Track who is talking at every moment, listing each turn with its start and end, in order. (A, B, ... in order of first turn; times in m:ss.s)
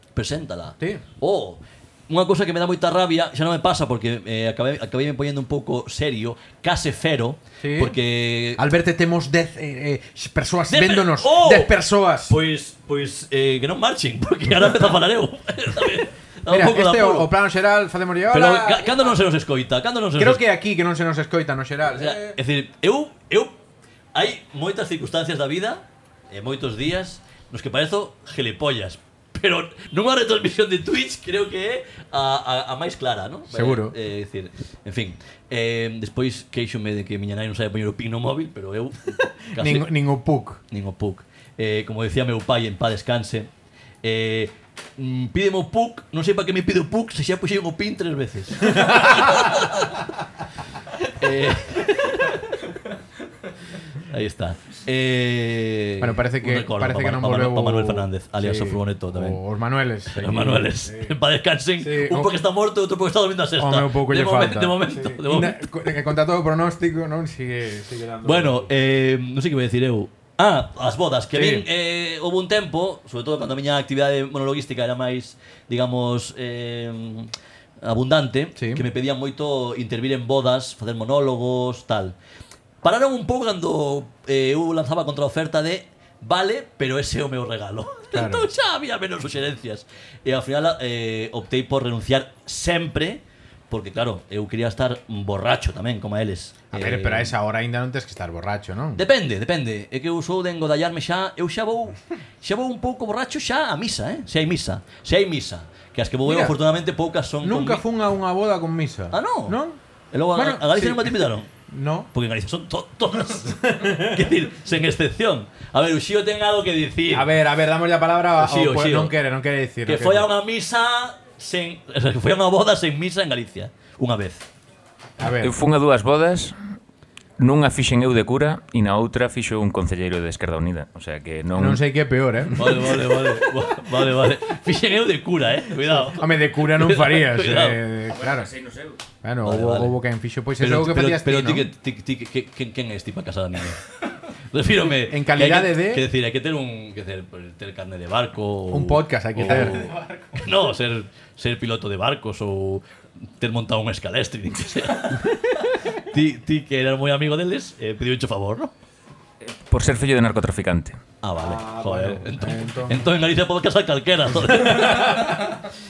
0:00.2-0:08.6 A
0:07.6-0:08.0 B
0:08.6-0:12.4 B
0:10.7-0:11.8 A
0:12.3-0:17.3 A
0:16.5-0:19.1 B
0:18.3-0:20.4 A
0:20.2-0:22.4 B
0:21.9-0:23.6 A
0:24.1-0:39.9 A
0:33.5-0:34.0 B
0:39.5-0:40.6 B
0:40.7-0:43.5 A
0:44.0-0:50.0 A
0:48.7-0:49.6 B
0:51.1-0:52.7 A
0:54.1-0:59.4 A
0:56.0-1:01.2 B
1:00.1-1:05.7 A
1:01.8-1:02.3 B
1:03.6-1:08.7 B
1:08.2-1:22.2 A
1:11.3-1:11.7 B
1:18.6-1:18.9 B
1:22.8-1:37.3 A
1:28.1-1:28.5 B
1:36.7-1:39.0 B
1:39.0-1:47.8 A
1:46.2-1:46.6 B
1:47.4-1:49.8 B
1:49.1-1:49.6 A
1:50.1-1:51.5 A
1:50.4-1:52.1 B
1:52.1-1:57.3 A
1:53.4-1:54.2 B
1:57.1-2:00.3 B
1:58.4-1:59.2 A
1:59.9-2:04.5 A
2:05.2-2:05.5 B
2:05.4-2:06.5 C
2:07.4-2:11.8 C
2:11.6-2:13.0 B
2:12.6-2:17.8 A
2:16.1-2:18.5 B
2:18.2-2:19.0 C
2:19.2-2:21.7 B
2:19.4-2:19.9 A
2:20.6-2:23.8 A
2:24.5-2:35.3 A
2:25.0-2:26.0 B
2:28.7-2:29.8 B
2:36.1-2:38.7 A
2:39.5-2:41.0 C
2:41.2-2:45.5 A
2:41.4-2:43.1 B
2:44.5-2:45.6 B